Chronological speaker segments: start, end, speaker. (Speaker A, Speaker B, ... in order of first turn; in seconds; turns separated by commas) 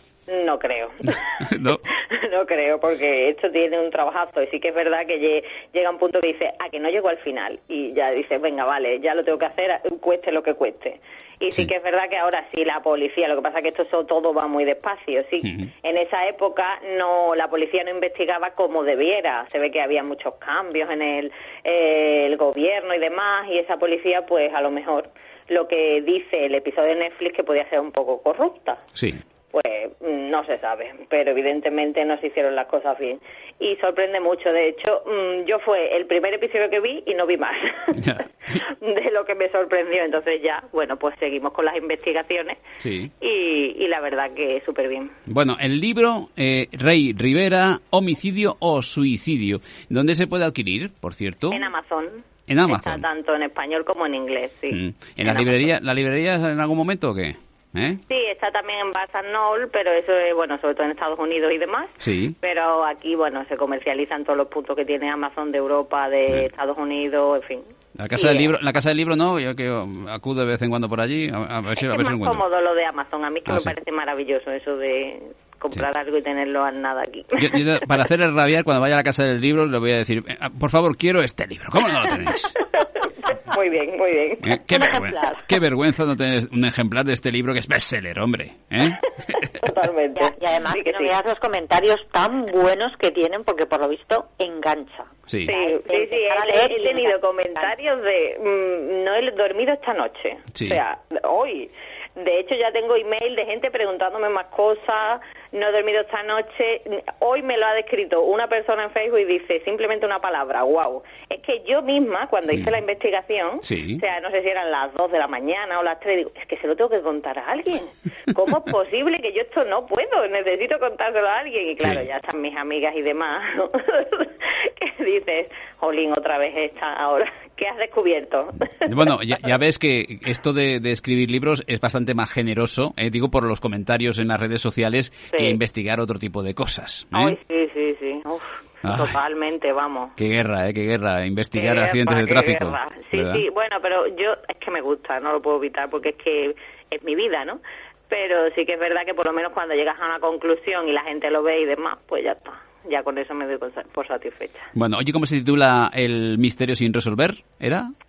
Speaker A: 0.3-1.2, Speaker B: 1.4-1.8, Speaker A: 2.1-28.8, Speaker B: 15.4-15.7, Speaker B: 28.9-29.2, Speaker A: 29.5-38.0, Speaker B: 38.0-38.6, Speaker A: 38.6-42.6, Speaker B: 42.8-43.1, Speaker A: 43.2-45.1, Speaker B: 45.3-51.6, Speaker A: 51.5-55.7, Speaker B: 52.5-53.0, Speaker B: 54.7-58.0, Speaker A: 58.1-68.5, Speaker B: 62.0-62.3, Speaker B: 68.0-72.4, Speaker A: 71.8-77.7, Speaker B: 73.5-73.7, Speaker B: 77.4-82.5, Speaker A: 82.8-84.6, Speaker B: 84.4-89.4, Speaker C: 84.7-85.5, Speaker A: 89.6-91.1, Speaker C: 90.1-97.7, Speaker B: 95.3-95.5, Speaker A: 95.5-129.0, Speaker B: 100.5-100.8, Speaker B: 113.6-114.0, Speaker B: 121.8-122.1, Speaker B: 128.9-137.4, Speaker A: 137.1-140.1, Speaker B: 138.8-139.2, Speaker B: 140.2-143.4, Speaker A: 141.6-154.7, Speaker B: 154.7-157.9